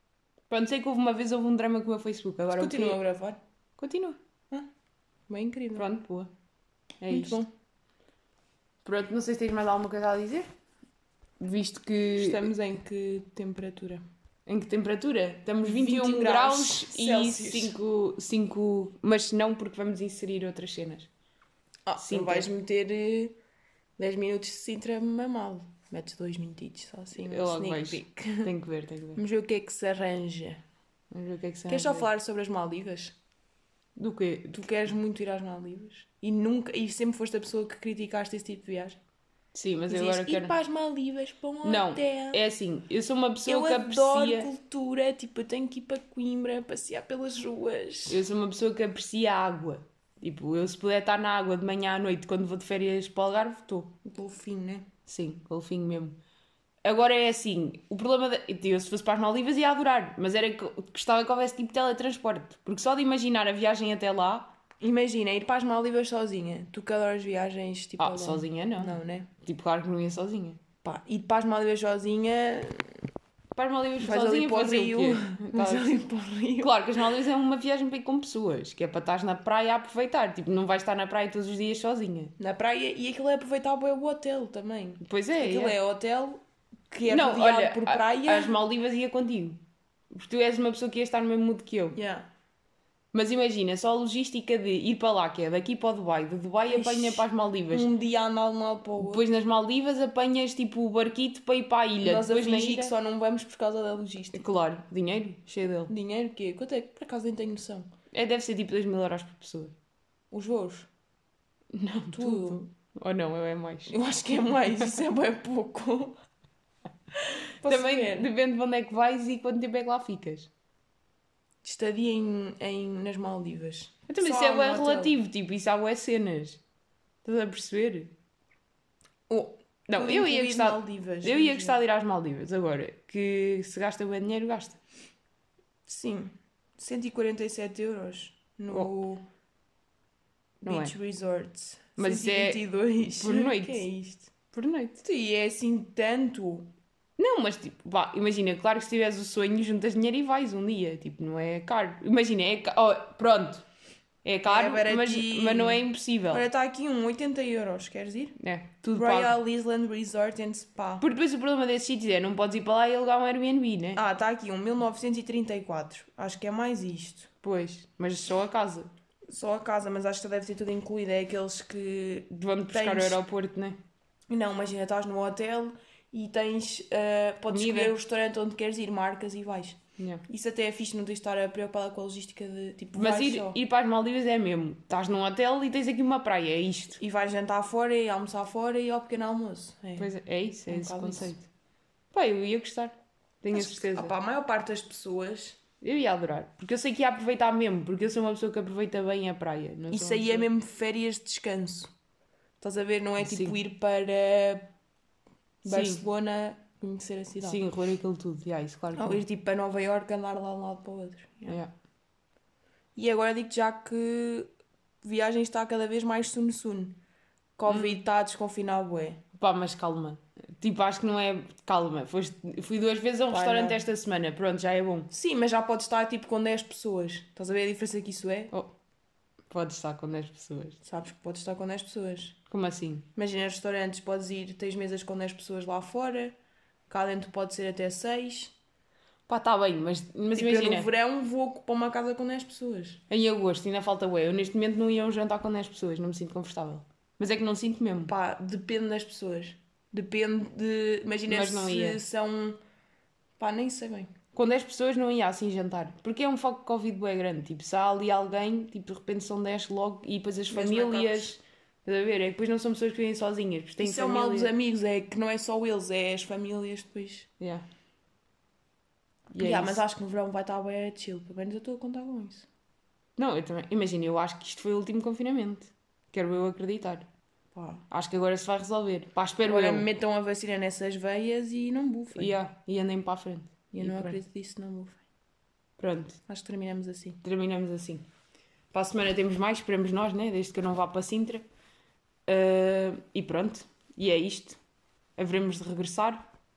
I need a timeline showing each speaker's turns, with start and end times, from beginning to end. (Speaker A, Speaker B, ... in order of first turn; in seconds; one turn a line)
Speaker A: 0.5-3.0
Speaker B: 2.5-3.4
Speaker A: 3.8-4.2
Speaker B: 5.3-5.9
Speaker A: 5.8-6.3
Speaker A: 7.0-7.4
Speaker B: 7.1-7.5
Speaker A: 8.8-10.5
Speaker A: 11.4-12.5
Speaker B: 12.2-14.0
Speaker A: 14.5-21.1
Speaker B: 15.6-17.8
Speaker B: 21.9-23.4
Speaker A: 21.9-22.5
Speaker B: 24.0-28.5
Speaker A: 27.1-29.2
Speaker B: 29.1-30.6
Speaker A: 31.1-32.1
Speaker B: 31.7-33.2
Speaker A: 34.0-34.7
Speaker B: 34.5-39.0
Speaker A: 39.5-40.5
Speaker B: 39.9-42.4
Speaker A: 41.6-44.5
Speaker B: 43.5-48.2
Speaker A: 48.1-53.9
Speaker B: 54.0-54.9
Speaker A: 55.0-56.2
Speaker A: 56.8-64.5
Speaker B: 64.8-69.3
Speaker A: 68.0-70.6
Speaker B: 70.8-73.0
Speaker A: 73.5-76.0
Speaker B: 74.0-76.8
Speaker A: 76.6-82.3
Speaker B: 82.4-88.6
Speaker A: 85.0-85.7
Speaker A: 87.1-89.6
Speaker A: 90.1-92.0
Speaker B: 91.9-92.3
Speaker A: 93.1-97.9
Speaker B: 96.7-99.2
Speaker A: 99.0-102.9
Speaker B: 102.0-104.5
Speaker A: 104.3-105.9
Speaker B: 105.9-107.9
Speaker A: 108.1-109.8
Speaker B: 110.3-110.9
Speaker A: 111.7-113.9
Speaker B: 112.1-112.7
Speaker B: 113.9-116.2
Speaker B: 117.6-118.2
Speaker A: 117.6-120.5
Speaker B: 121.6-125.1
Speaker A: 124.1-126.6
Speaker A: 127.2-128.1
Speaker B: 129.3-131.8
Speaker A: 129.9-134.8
Speaker B: 135.9-139.2
Speaker B: 140.6-144.3
Speaker A: 140.6-140.9
Speaker A: 142.0-143.8
Speaker A: 144.5-145.0
Speaker B: 145.0-146.7
Speaker A: 147.2-153.6
Speaker A: 154.2-156.4
Speaker B: 154.4-158.3
Speaker A: 158.4-159.4
Speaker B: 158.9-161.0
Speaker A: 161.0-164.0
Speaker B: 163.9-167.3
Speaker A: 167.4-168.9
Speaker B: 169.3-173.2
Speaker A: 172.3-173.8
Speaker B: 174.3-183.6
Speaker A: 177.5-177.9
Speaker A: 180.0-180.2
Speaker A: 182.9-187.0
Speaker B: 187.0-190.1
Speaker A: 190.0-191.5
Speaker B: 190.7-191.3
Speaker A: 192.1-194.1
Speaker B: 193.5-195.6
Speaker A: 195.8-200.5
Speaker B: 199.9-201.9
Speaker B: 202.6-204.7
Speaker A: 203.2-203.6
Speaker B: 205.6-207.6
Speaker A: 205.6-206.0
Speaker A: 207.4-209.2
Speaker B: 208.9-211.6
Speaker A: 211.4-211.7
Speaker B: 212.9-214.5
Speaker B: 215.0-217.0
Speaker B: 217.6-219.2
Speaker A: 217.7-218.0
Speaker A: 219.4-225.1
Speaker B: 223.3-223.8
Speaker B: 225.1-228.5
Speaker A: 229.5-230.8
Speaker B: 230.8-232.4
Speaker A: 232.5-233.1
Speaker B: 233.2-236.3
Speaker B: 236.9-238.5
Speaker A: 239.3-240.9
Speaker B: 240.3-243.0
Speaker A: 243.1-248.1
Speaker B: 248.1-252.6
Speaker A: 251.3-252.0
Speaker B: 253.4-254.1
Speaker A: 254.3-264.5
Speaker B: 260.5-261.3
Speaker B: 263.8-267.3
Speaker A: 267.4-267.6
Speaker A: 269.3-269.8
Speaker B: 269.4-272.5
Speaker A: 273.2-277.1
Speaker B: 277.5-277.8
Speaker A: 277.9-279.9
Speaker B: 279.4-282.3
Speaker A: 282.1-284.2
Speaker B: 283.7-285.0
Speaker A: 285.8-286.2
Speaker B: 286.3-287.2
Speaker A: 287.2-288.0
Speaker A: 288.7-291.4
Speaker A: 292.3-294.6
Speaker A: 295.2-296.2